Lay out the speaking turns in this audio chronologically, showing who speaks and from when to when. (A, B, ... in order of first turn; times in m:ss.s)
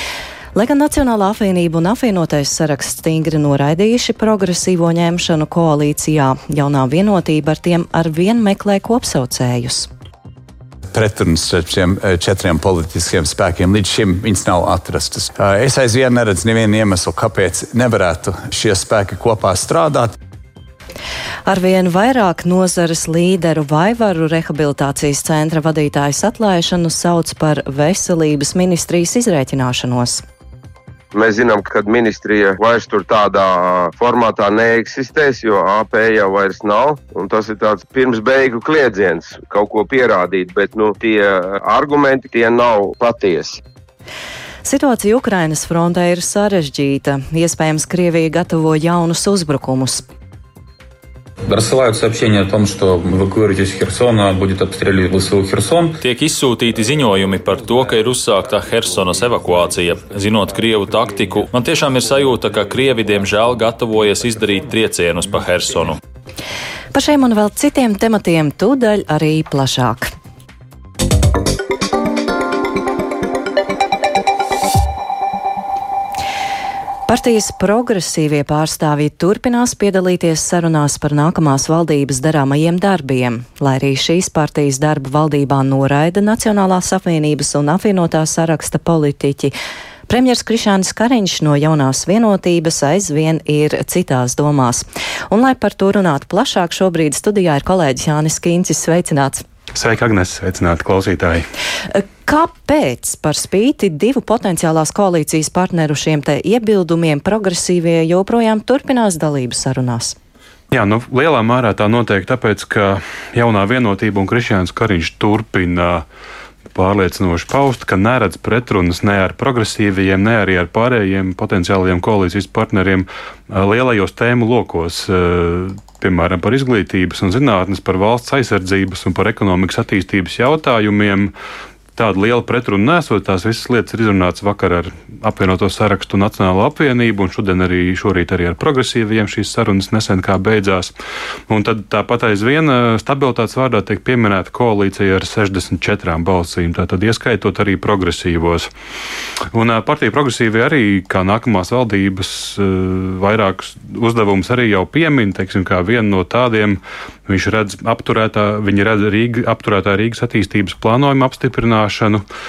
0:00.5-0:09.9 A
0:10.9-0:20.1 B
0:21.5-0:30.2 A
0:31.1-0:43.6 C
0:44.6-0:50.0 A
0:51.5-0:56.0 D
0:56.0-1:06.0 E
1:06.9-1:10.1 A
1:17.1-1:29.5 A
1:30.1-1:39.4 A
1:39.7-1:41.4 F
1:41.9-1:50.2 A
1:50.7-1:56.0 F
1:56.7-2:11.3 F
2:11.9-2:20.9 F
2:21.5-2:28.7 F
2:29.5-2:42.2 F